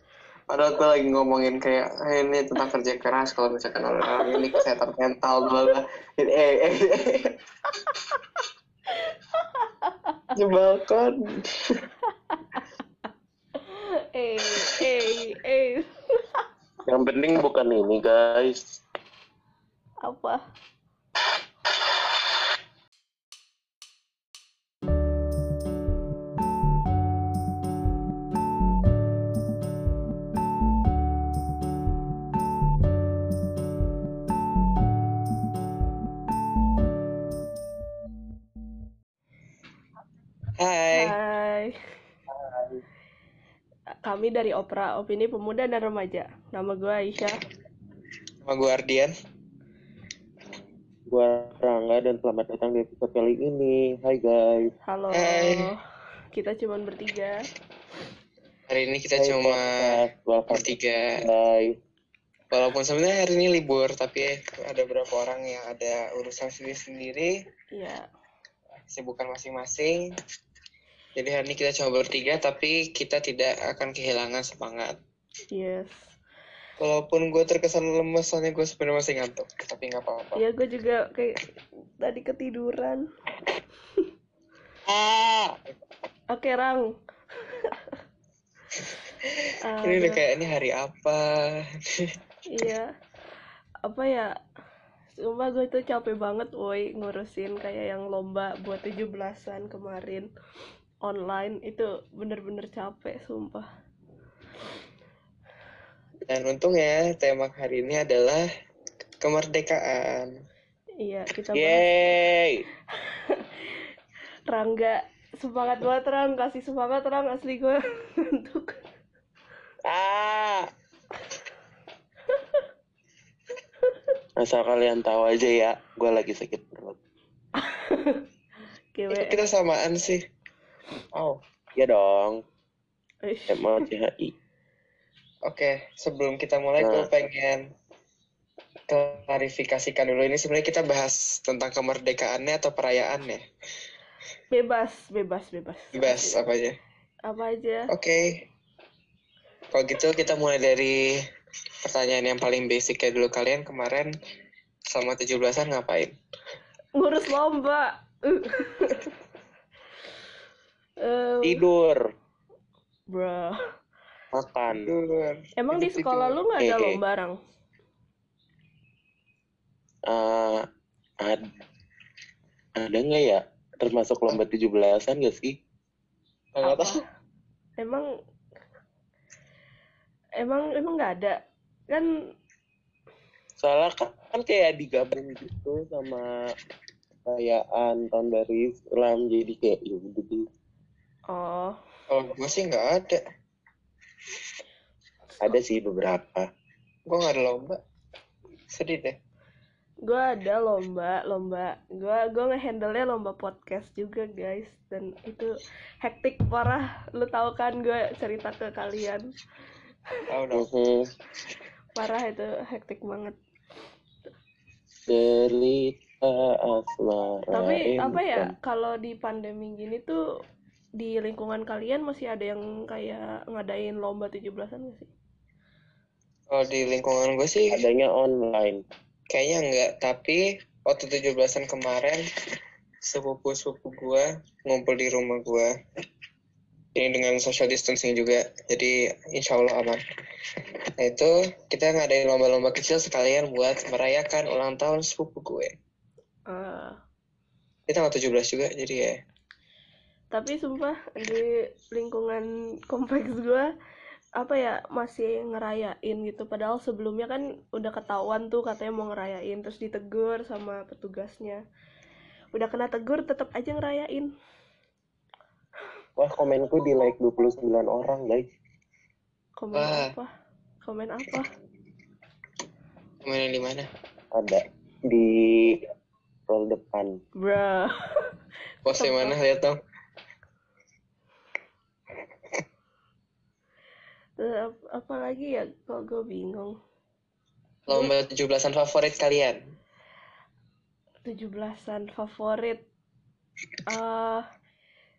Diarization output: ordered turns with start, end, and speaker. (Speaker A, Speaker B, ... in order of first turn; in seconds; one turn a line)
Speaker A: 0.5-8.1
Speaker B: 4.1-4.6
Speaker B: 9.0-10.3
Speaker A: 10.3-11.9
Speaker B: 12.3-12.7
Speaker B: 13.5-16.4
Speaker C: 16.9-18.8
Speaker B: 20.0-20.4
Speaker A: 40.6-41.2
Speaker B: 40.9-41.7
Speaker B: 44.0-47.4
Speaker A: 48.5-49.1
Speaker C: 51.1-54.7
Speaker B: 54.9-55.8
Speaker A: 55.1-55.7
Speaker B: 56.3-57.4
Speaker A: 58.7-60.0
Speaker C: 59.1-61.8
Speaker A: 60.5-61.2
Speaker A: 62.5-67.3
Speaker B: 67.7-68.0
Speaker A: 68.9-70.0
Speaker A: 71.2-75.0
Speaker B: 75.5-76.1
Speaker A: 76.8-80.4
Speaker B: 80.4-81.4
Speaker B: 82.0-83.0
Speaker C: 84.9-85.6
Speaker B: 86.3-86.8
Speaker B: 87.5-88.0
Speaker A: 89.2-92.1
Speaker B: 89.6-90.2
Speaker B: 92.5-92.9
Speaker B: 93.8-94.3
Speaker B: 95.1-100.3
Speaker B: 101.0-103.7
Speaker A: 106.2-108.5
Speaker A: 109.2-110.4
Speaker B: 111.0-111.9
Speaker C: 111.5-112.6
Speaker B: 112.9-113.9
Speaker B: 114.5-118.8
Speaker C: 119.9-120.7
Speaker C: 124.4-127.0
Speaker B: 127.6-128.2
Speaker B: 128.9-129.4
Speaker A: 129.1-130.2
Speaker A: 131.1-131.4
Speaker C: 131.8-132.4
Speaker B: 133.2-133.9
Speaker C: 133.5-134.3
Speaker A: 135.5-137.7
Speaker C: 136.8-137.1
Speaker A: 138.9-143.4
Speaker B: 144.5-146.4
Speaker A: 145.9-146.8
Speaker B: 147.2-147.9
Speaker A: 147.9-148.4
Speaker A: 149.7-151.0
Speaker A: 151.8-154.1
Speaker A: 154.9-156.1
Speaker B: 157.0-159.2
Speaker B: 161.0-161.6
Speaker C: 161.4-162.0
Speaker B: 163.1-163.6
Speaker C: 164.3-164.9
Speaker A: 164.7-166.4
Speaker B: 165.6-167.3
Speaker C: 166.6-167.0
Speaker C: 170.1-170.7
Speaker C: 172.8-175.5
Speaker A: 176.5-177.0
Speaker B: 176.6-177.0
Speaker B: 177.8-178.1
Speaker B: 180.4-181.4
Speaker C: 183.6-186.3
Speaker C: 187.2-190.5
Speaker B: 191.3-191.8
Speaker A: 192.1-193.2
Speaker C: 195.4-196.5
Speaker A: 197.1-197.8
Speaker A: 198.7-199.2
Speaker B: 200.0-209.2
Speaker A: 210.3-210.7
Speaker C: 210.5-211.0
Speaker B: 211.9-213.4
Speaker C: 215.1-218.5
Speaker B: 217.5-220.2
Speaker B: 221.0-225.1
Speaker A: 226.5-227.8
Speaker C: 227.7-228.8
Speaker A: 229.3-232.2
Speaker A: 233.0-235.7
Speaker A: 236.9-240.0
Speaker A: 241.0-245.8
Speaker B: 246.5-247.0
Speaker A: 247.9-249.2
Speaker B: 250.3-253.7
Speaker B: 254.4-261.6
Speaker B: 262.5-264.3
Speaker C: 266.2-268.5
Speaker B: 269.6-270.3
Speaker A: 269.7-270.1
Speaker B: 270.8-271.5
Speaker A: 273.2-273.9
Speaker C: 274.3-275.8
Speaker C: 276.5-277.2
Speaker B: 277.4-278.3
Speaker A: 278.9-279.8
Speaker B: 279.0-279.4
Speaker B: 284.4-286.8
Speaker A: 287.9-289.6
Speaker B: 291.2-292.8
Speaker B: 293.9-294.5